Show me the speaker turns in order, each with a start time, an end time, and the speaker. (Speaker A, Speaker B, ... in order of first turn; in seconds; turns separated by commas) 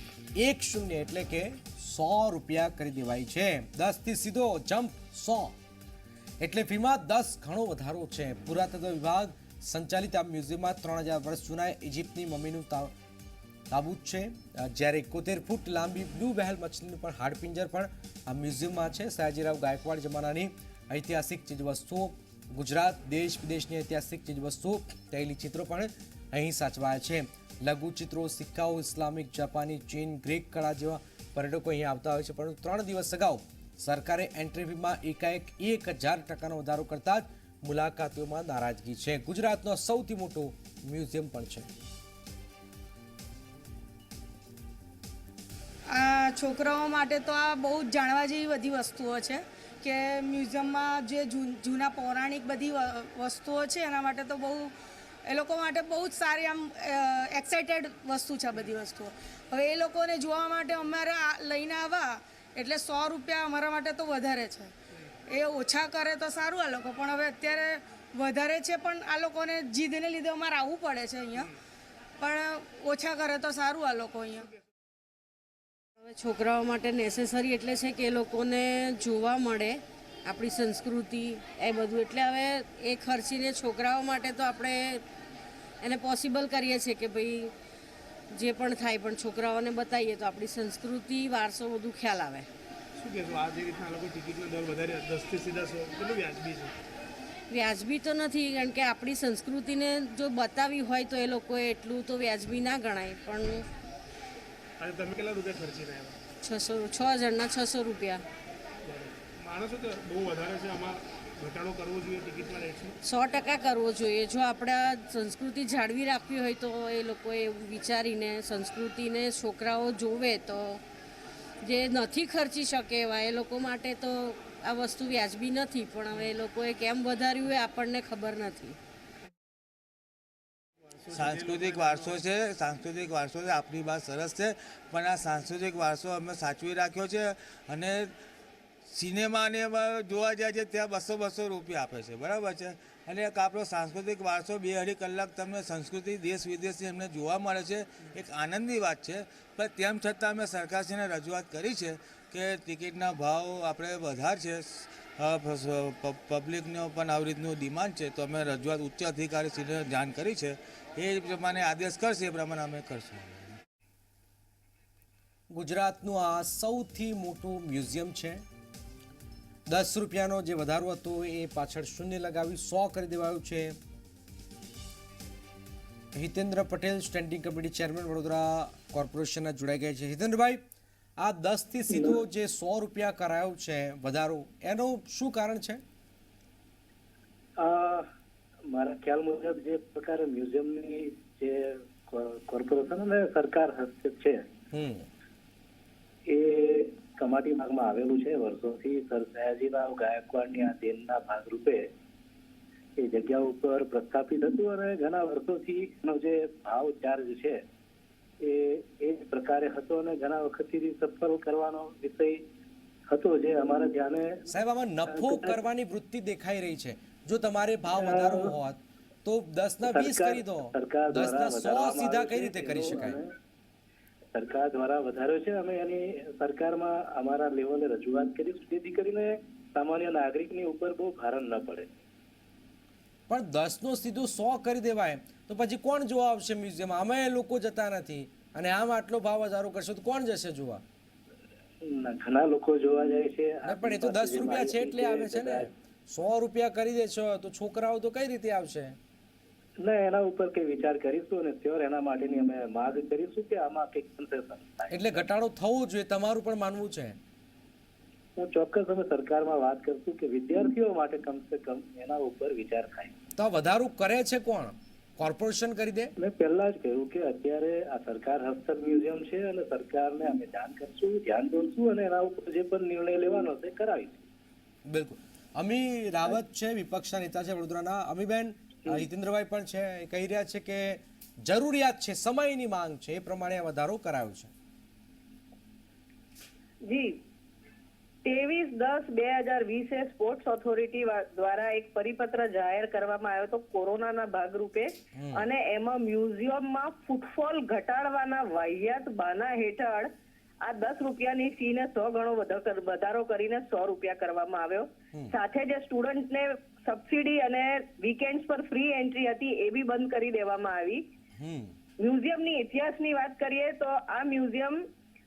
Speaker A: 0.3-5.5, Speaker A: 6.4-12.9, Speaker A: 13.7-41.7, Speaker B: 45.9-54.7, Speaker B: 55.2-64.7, Speaker B: 65.3-71.5, Speaker B: 72.2-74.5, Speaker C: 76.0-85.0, Speaker C: 85.8-87.5, Speaker C: 88.3-92.5, Speaker D: 93.0-96.7, Speaker C: 97.5-103.6, Speaker D: 104.8-106.1, Speaker C: 106.4-108.2, Speaker D: 109.4-112.9, Speaker C: 113.0-120.8, Speaker C: 121.6-128.8, Speaker E: 131.1-138.1, Speaker E: 138.9-163.6, Speaker A: 165.5-168.4, Speaker A: 169.7-173.8, Speaker A: 176.1-180.6, Speaker A: 181.2-185.8, Speaker F: 187.6-188.1, Speaker F: 188.7-194.5, Speaker A: 194.7-195.1, Speaker F: 196.3-201.9, Speaker F: 203.0-207.6, Speaker F: 208.4-212.4, Speaker F: 213.1-214.5, Speaker A: 214.5-223.2, Speaker F: 215.1-215.6, Speaker F: 217.9-218.6, Speaker F: 219.8-223.3, Speaker F: 224.3-231.9, Speaker A: 233.3-240.8, Speaker F: 241.8-245.7, Speaker A: 243.6-249.0, Speaker F: 249.8-255.2, Speaker A: 254.9-257.2, Speaker F: 258.4-263.1, Speaker A: 263.4-266.1, Speaker F: 266.2-274.2, Speaker A: 274.9-284.5, Speaker G: 286.9-287.1, Speaker G: 288.2-300.1, Speaker A: 295.1-295.4, Speaker G: 300.6-311.0, Speaker A: 311.4-311.7, Speaker G: 312.0-314.8